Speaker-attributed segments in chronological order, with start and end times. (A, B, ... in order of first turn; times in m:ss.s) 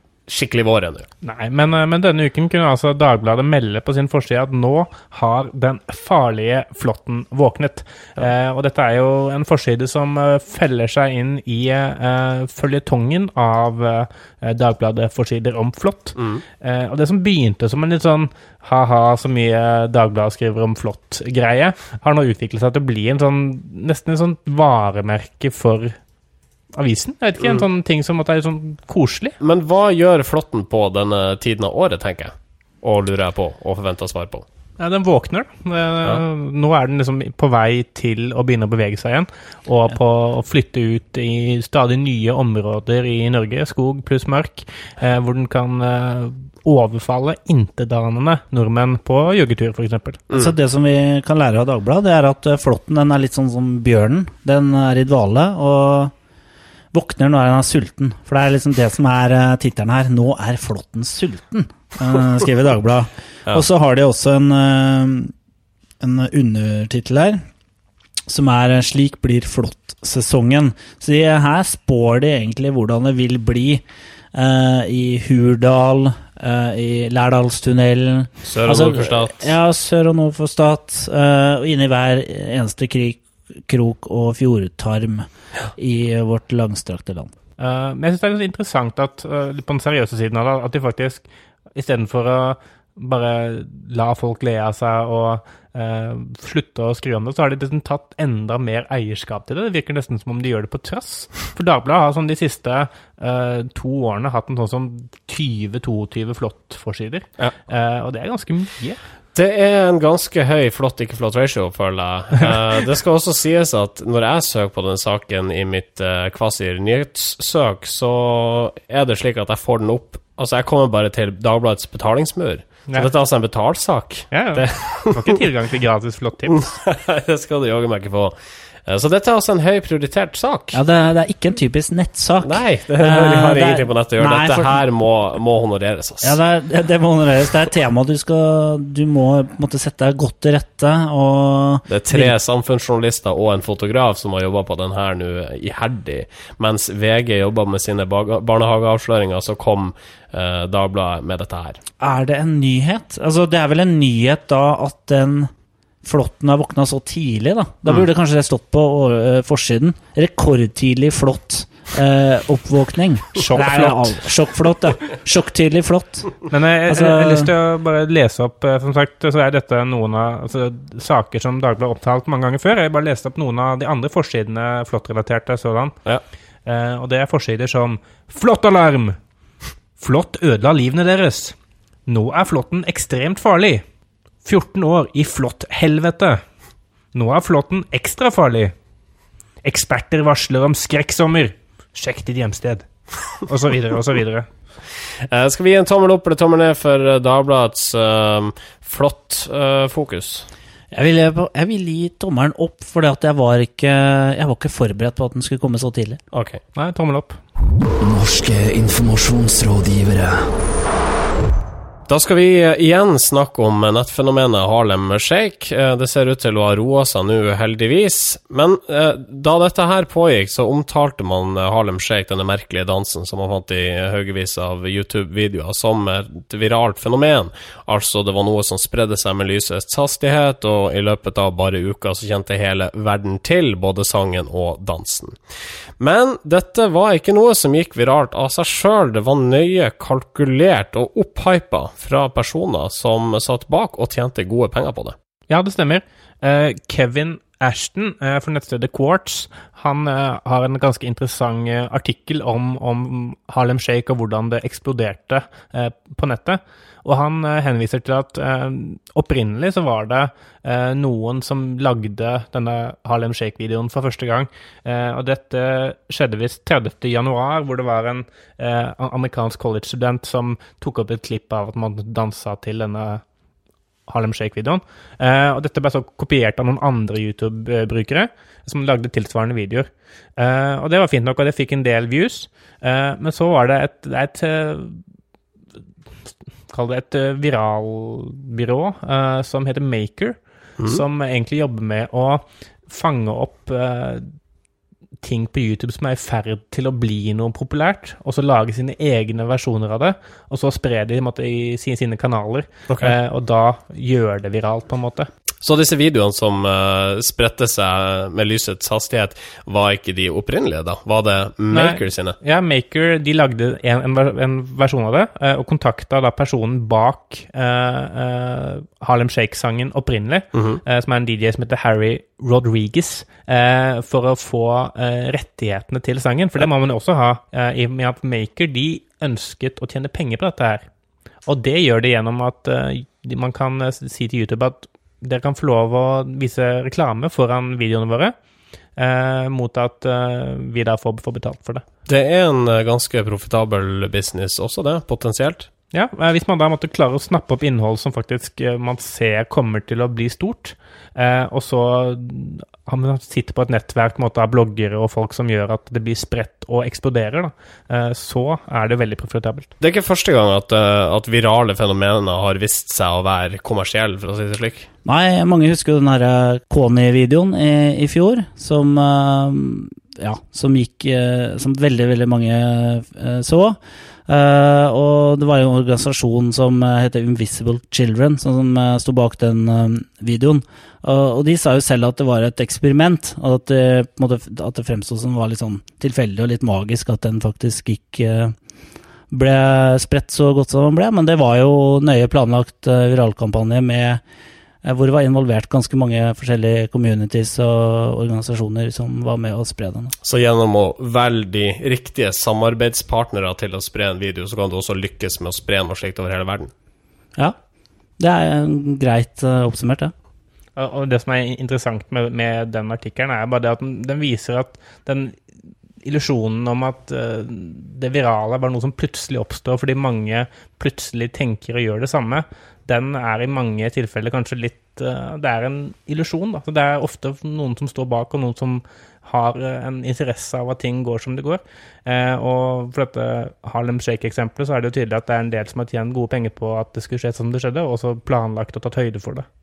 0:00.3-0:01.1 A
0:01.2-0:26.0 B
0:16.2-0:16.4 A
0:26.7-0:29.4 B
0:29.4-0:34.4 A
0:34.8-0:50.2 B
0:50.3-0:56.1 C
0:56.9-1:05.3 C
1:06.0-1:07.4 C
1:08.3-1:27.3 C
1:18.4-1:19.5 A
1:27.6-1:31.2 B
1:31.8-1:49.0 B
1:49.3-2:05.4 A
2:04.3-2:06.6 B
2:06.5-2:08.3 A
2:08.9-2:10.8 A
2:10.7-2:14.8 C
2:12.4-2:16.4 A
2:16.2-2:22.3 C
2:21.9-2:31.8 A
2:32.0-2:35.5 C
2:36.0-2:46.4 C
2:43.5-2:44.2 B
2:46.5-2:55.9 B
2:46.9-2:47.5 C
2:56.6-2:59.2 B
3:00.0-3:01.5 B
3:02.1-3:03.8 B
3:04.4-3:06.4 B
3:07.1-3:08.7 B
3:09.6-3:14.5 B
3:15.3-3:20.5 A
3:20.9-3:26.2 C
3:26.3-3:26.6 A
3:26.7-3:27.4 B
3:28.0-3:30.5 D
3:32.1-3:55.4 A
3:56.0-4:05.2 A
4:05.5-4:33.2 B
4:34.1-4:45.0 B
4:46.7-4:54.3 B
4:55.2-5:05.3 B
5:05.6-5:12.4 A
5:11.7-5:30.8 B
5:20.5-5:20.8 A
5:31.4-5:38.3 B
5:39.0-5:41.8 B
5:42.1-5:45.7 A
5:45.9-5:59.7 B
5:59.8-6:04.9 A
6:05.0-6:28.5 C
6:29.3-6:34.2 C
6:34.8-6:40.1 C
6:40.2-6:46.7 A
6:48.2-6:50.1 C
6:50.8-6:55.4 B
6:56.0-7:19.4 B